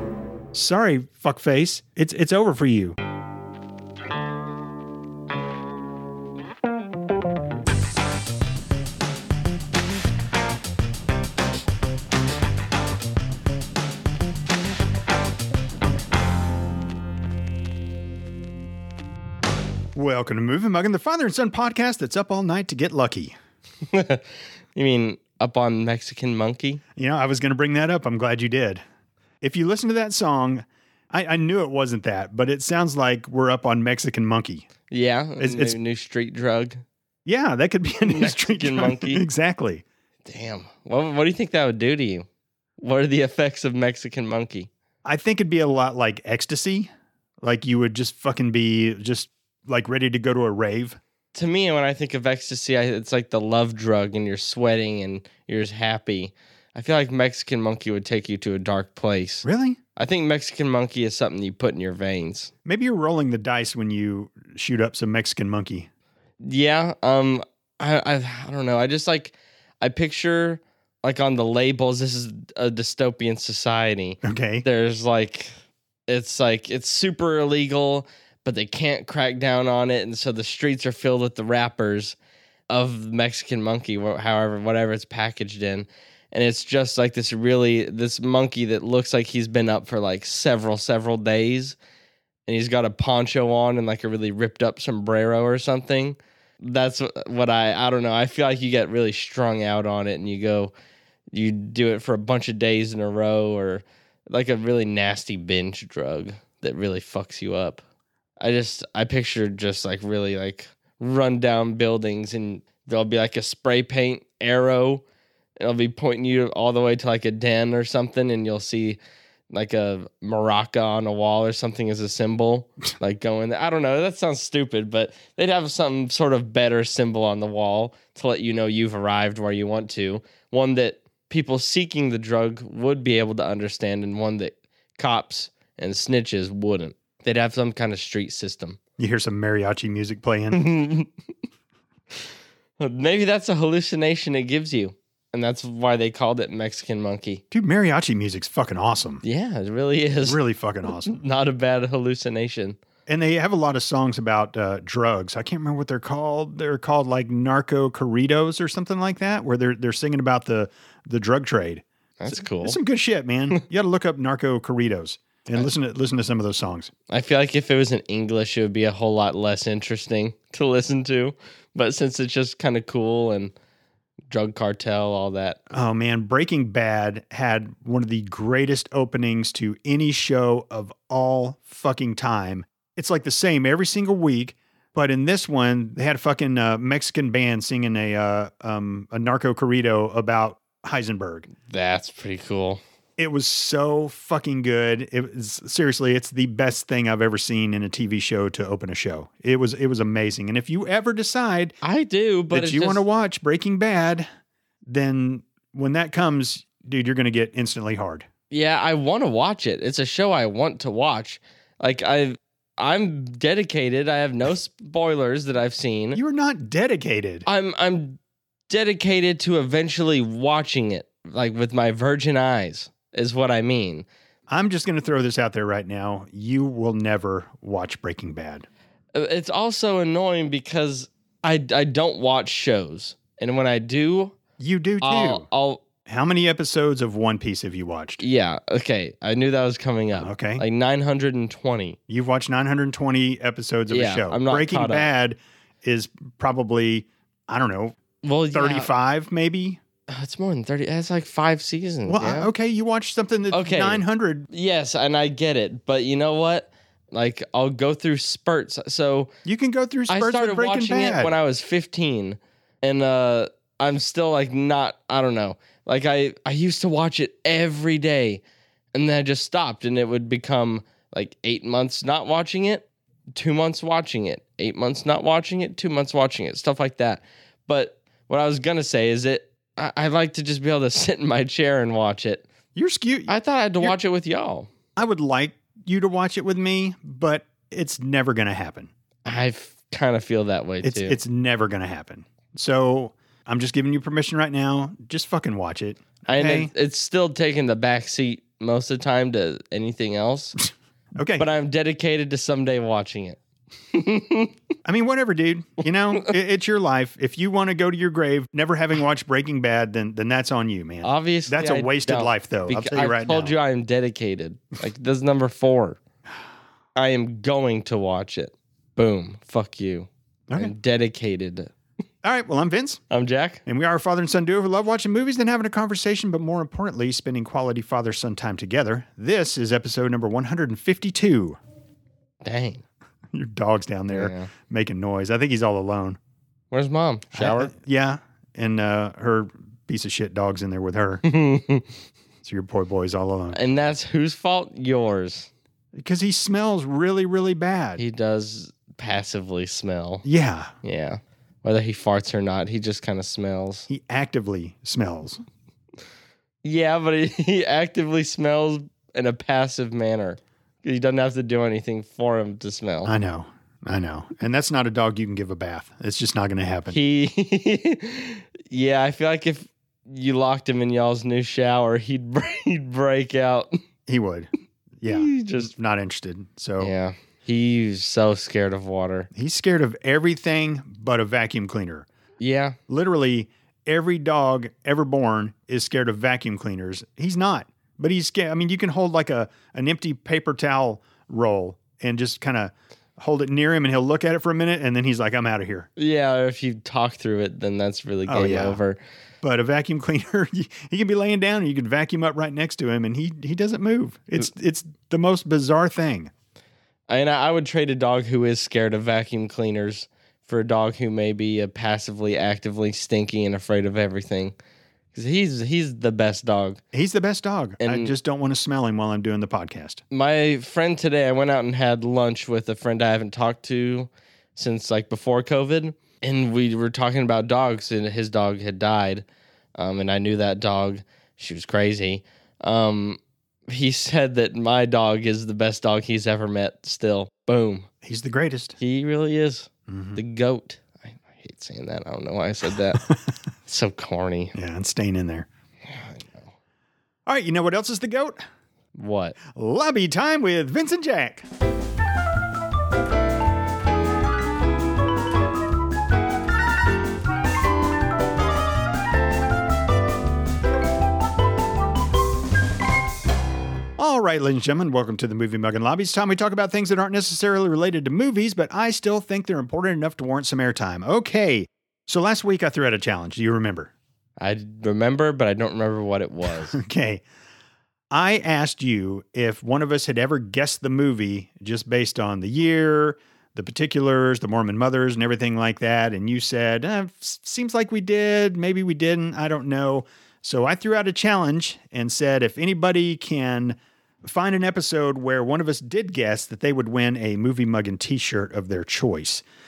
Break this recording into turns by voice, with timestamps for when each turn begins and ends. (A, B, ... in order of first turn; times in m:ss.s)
0:00.5-0:03.0 A
0:19.9-0:23.3 A
0:23.9-0:26.8 B
0:27.0-0:28.8 A
0:29.4-0:34.7 A
0:34.9-0:36.8 B
0:35.4-0:35.8 A
0:37.2-0:39.8 A
0:38.0-0:39.2 B
0:40.2-0:42.2 B
0:42.8-0:44.7 B
0:45.0-0:46.9 A
0:47.4-0:51.0 A
0:51.3-1:02.5 B
0:59.4-0:59.8 A
1:02.6-1:05.9 A
1:06.4-1:15.5 B
1:14.2-1:14.6 A
1:16.1-1:22.2 B
1:22.7-1:31.8 B
1:32.4-1:40.7 B
1:41.3-1:47.8 B
1:48.4-1:55.0 B
1:55.6-1:59.0 B
1:59.5-2:18.8 B
2:19.0-2:20.6 A
2:20.5-2:21.1 B
2:22.8-2:27.4 B
2:27.5-2:29.2 A
2:29.2-2:32.8 B
2:30.2-2:31.2 A
2:33.1-2:46.9 A
2:42.2-2:42.8 B
2:47.1-2:53.5 B
2:54.3-2:55.6 B
2:55.7-3:11.5 A
3:11.6-3:12.8 B
3:13.2-3:21.8 A
3:21.8-3:23.0 B
3:22.5-3:24.3 A
3:24.9-3:28.3 A
3:28.5-3:36.2 B
3:36.1-3:37.4 A
3:37.4-3:44.0 B
3:44.5-3:48.7 A
3:49.1-3:54.4 B
3:54.6-3:55.5 A
3:55.0-3:55.8 B
3:56.0-3:58.2 A
3:58.2-4:02.0 B
4:00.1-4:00.6 A
4:02.1-4:08.0 A
4:03.9-4:05.1 B
4:08.2-4:08.9 B
4:08.5-4:09.8 A
4:10.1-4:12.5 B
4:12.0-4:14.5 A
4:13.5-4:19.3 B
4:19.4-4:21.3 A
4:20.1-4:28.4 B
4:28.9-4:32.8 B
4:33.4-4:42.4 B
4:42.7-4:44.0 A
4:43.3-4:44.7 B
4:45.0-4:48.9 A
4:49.2-4:51.2 B
4:50.8-4:56.7 A
4:56.3-5:00.6 B
5:01.2-5:01.5 A
5:01.4-5:03.4 B
5:03.9-5:04.5 B
5:04.8-5:13.5 A
5:11.0-5:16.0 B
5:17.0-5:21.7 B
5:22.2-5:23.0 A
5:23.1-5:23.6 B
5:23.6-5:31.6 A
5:32.4-5:32.8 B
5:33.3-5:36.2 A
5:34.1-5:34.5 B
5:36.7-5:37.7 B
5:37.3-5:41.2 A
5:41.2-5:41.9 B
5:42.4-5:43.6 A
5:43.5-5:45.5 B
5:45.9-5:48.0 A
5:48.0-5:50.2 B
5:50.2-5:50.7 A
5:50.8-5:53.9 B
5:53.9-5:55.4 A
5:56.6-6:03.1 B
6:03.0-6:07.0 A
6:06.9-6:13.8 B
6:14.1-6:14.5 A
6:15.0-6:16.9 A
6:15.1-6:15.7 B
6:16.8-6:19.3 B
6:19.3-6:22.0 A
6:22.4-6:22.8 B
6:22.9-6:35.9 A
6:36.0-6:39.0 B
6:38.2-6:38.8 A
6:39.4-6:46.3 A
6:47.1-6:54.5 B
6:55.1-6:56.8 B
6:56.9-7:00.0 A
6:57.8-6:58.1 B
7:00.1-7:09.2 B
7:09.8-7:17.9 B
7:18.0-7:18.8 A
7:18.8-7:23.0 B
7:19.9-7:20.2 A
7:23.7-7:24.5 B
7:24.5-7:25.5 A
7:25.9-7:26.5 B
7:27.2-7:28.4 A
7:28.9-7:29.4 B
7:29.5-7:31.5 A
7:44.0-7:53.9 A
7:54.4-7:56.8 B
7:56.6-7:57.2 A
7:58.1-8:19.4 A